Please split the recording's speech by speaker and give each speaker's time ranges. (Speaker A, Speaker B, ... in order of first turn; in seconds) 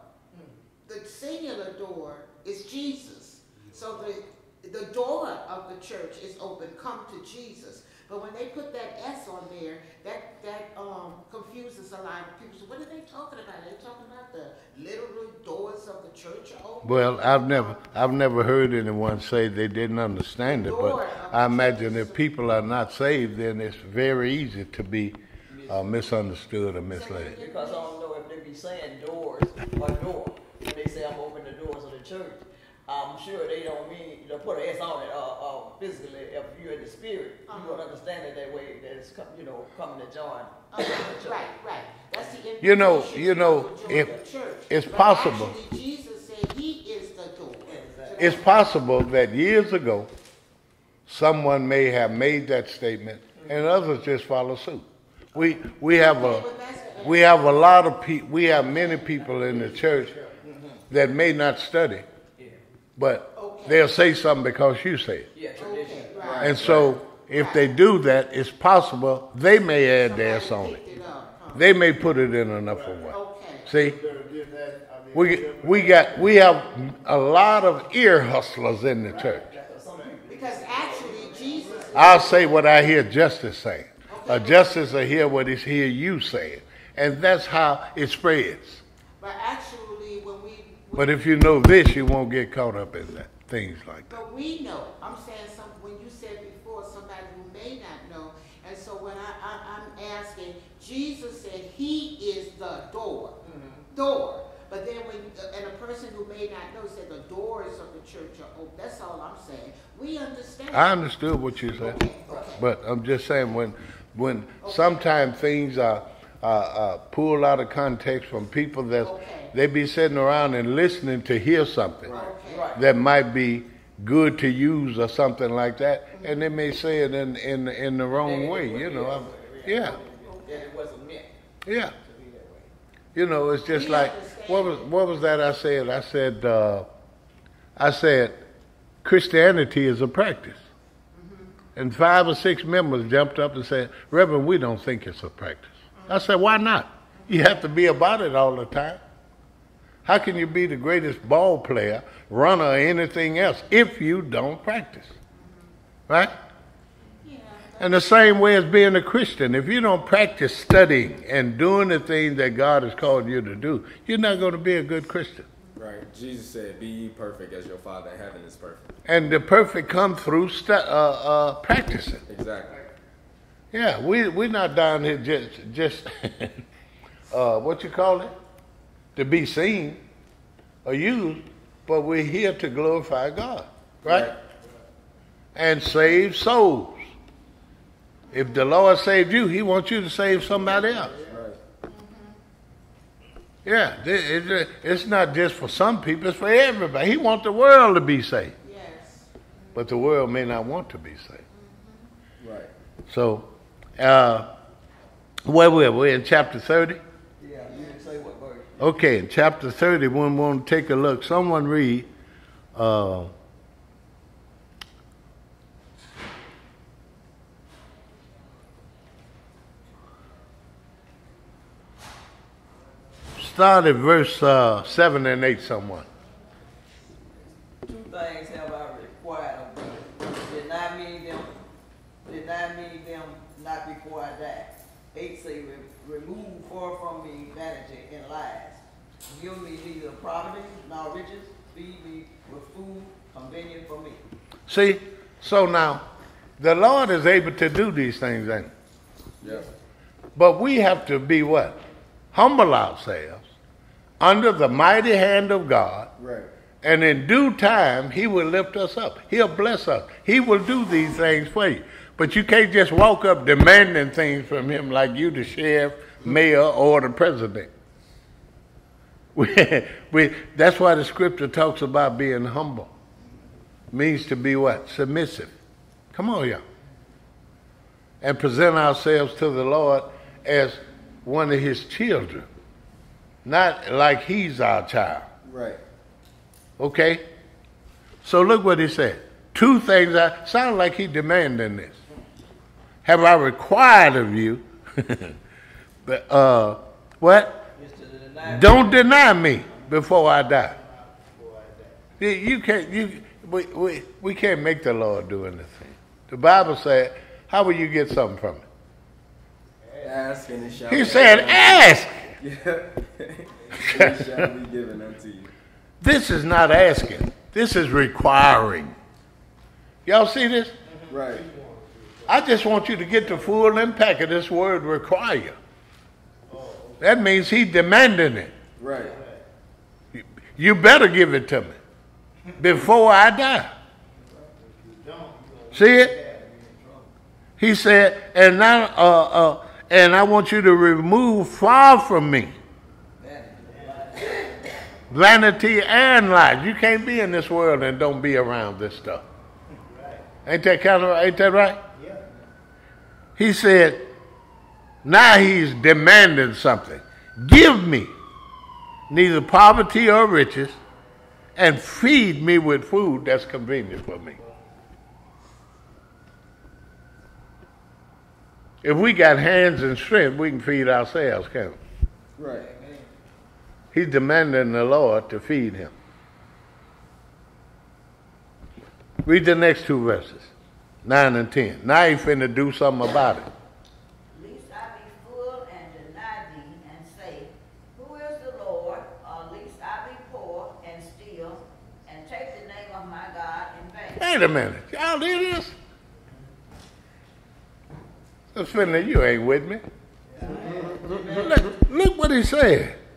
Speaker A: 0.8-18.0, 20.4-22.3, 26.9-27.9, 37.5-37.8, 40.7-48.6, 55.7-57.9, 63.4-63.9, 65.6-66.7, 67.3-67.7, 69.9-71.8, 73.1-73.7, 80.3-82.7, 84.1-84.9, 89.2-91.6, 94.1-103.4, 103.9-112.7, 114.6-115.1, 119.0-119.5, 122.1-122.7, 130.3-130.7, 133.6-134.9, 141.1-141.5, 146.0-146.2, 147.2-147.5, 155.3-155.7, 157.2-158.4, 188.3-188.6, 191.8-192.4, 198.6-200.1, 201.5-202.1, 207.7-208.0
Speaker B: 16.8-27.4, 42.6-44.1, 44.7-45.6, 48.2-50.1, 51.1-56.5, 57.0-60.2, 60.9-62.1, 63.0-65.3, 66.4-70.8, 71.5-74.0, 75.1-79.5, 81.9-88.8, 91.0-94.1, 110.7-112.0, 112.6-122.1, 122.7-130.0, 131.7-131.9, 133.2-136.9, 137.8-138.4, 139.0-140.6, 141.8-149.0, 150.1-155.2, 156.1-156.3, 157.8-165.5, 169.1-172.2, 173.7-176.6, 177.3-178.3, 179.2-180.0, 180.8-184.3, 185.6-187.1, 188.3-191.1, 193.7-198.5, 199.8-201.4, 203.1-204.5, 205.5-207.0, 208.8-212.1, 212.8-213.3, 223.4-226.1, 244.7-246.1, 246.6-248.7, 250.4-251.8, 252.3-253.4, 254.2-256.1, 256.8-267.7, 269.4-272.9, 273.9-275.5, 276.1-276.6, 278.2-282.5, 283.4-285.3, 286.8-287.2, 288.2-292.0, 293.1-295.4, 296.1-297.7, 298.4-300.8, 302.2-308.6, 310.9-312.3, 313.8-314.5, 316.0-318.9, 320.1-320.8, 322.3-325.6, 327.0-328.5, 330.1-331.8, 332.6-333.7, 335.7-336.1, 337.6-342.6, 345.1-349.2, 350.5-351.8, 353.4-354.1, 355.0-358.1, 359.1-360.8, 361.6-364.4, 368.8-371.8, 373.9-375.9, 379.2-380.5, 381.0-383.5, 394.2-395.8, 398.5-399.9, 401.4-403.0
Speaker C: 25.5-26.1, 27.3-41.5, 42.2-42.4, 43.9-44.2, 47.7-48.4, 53.4-53.7, 60.4-60.8, 65.3-66.3, 79.1-82.5, 103.4-103.8, 122.1-122.9, 128.2-131.3, 132.0-132.7, 190.6-191.3, 207.4-208.9, 227.8-231.5, 232.2-244.2, 297.8-299.5, 334.1-334.5, 343.2-344.8, 372.4-373.1, 400.4-401.8
Speaker D: 59.3-60.4, 72.5-73.1, 73.7-76.4, 81.5-82.0, 190.8-191.4, 299.8-302.0, 309.8-311.6, 320.9-323.8, 326.5-327.2, 328.9-329.4, 334.6-337.1, 343.6-344.5, 349.7-350.3, 351.9-352.2, 364.4-364.7, 396.2-396.5, 400.3-401.2
Speaker E: 66.2-67.0, 165.8-168.9, 172.3-172.8, 184.0-184.4, 191.3-191.6, 202.4-202.7, 249.4-249.7, 256.2-256.5, 285.4-285.8, 310.0-315.5, 321.1-321.4, 328.8-329.2, 372.4-372.7, 400.5-401.6
Speaker F: 384.3-394.4